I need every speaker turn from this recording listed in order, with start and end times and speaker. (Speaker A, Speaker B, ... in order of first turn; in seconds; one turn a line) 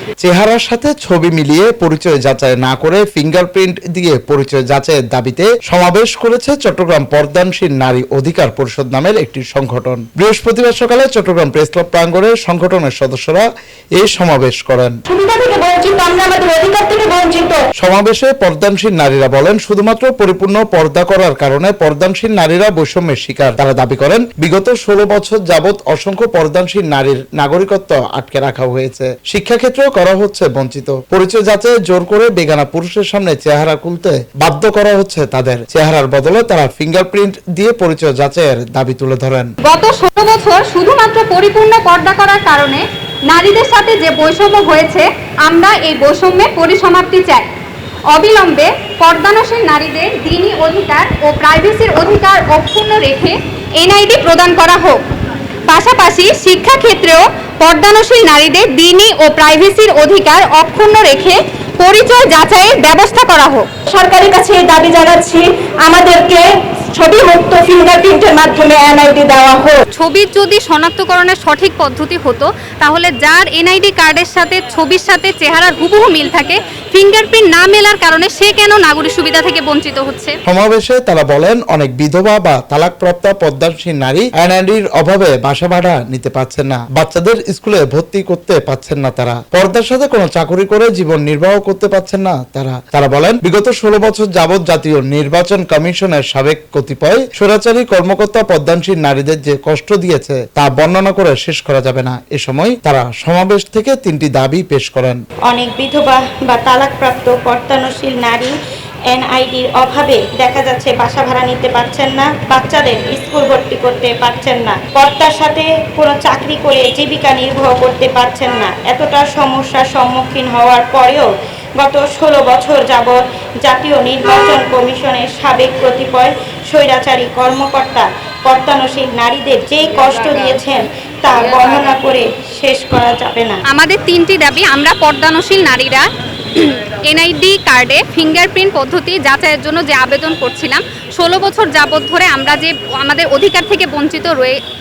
Speaker A: 0.2-15.0
Speaker B: 15.1-17.6
Speaker A: 17.8-39.5
Speaker C: 39.6-47.5
Speaker C: 48.1-55.0
Speaker C: 55.7-63.7
Speaker B: 63.9-69.8
Speaker C: 69.9-80.3
Speaker A: 80.5-105.2
Speaker D: 105.5-108.5
Speaker D: 109.1-121.3
Speaker D: 121.8-133.6
Speaker C: 133.7-144.6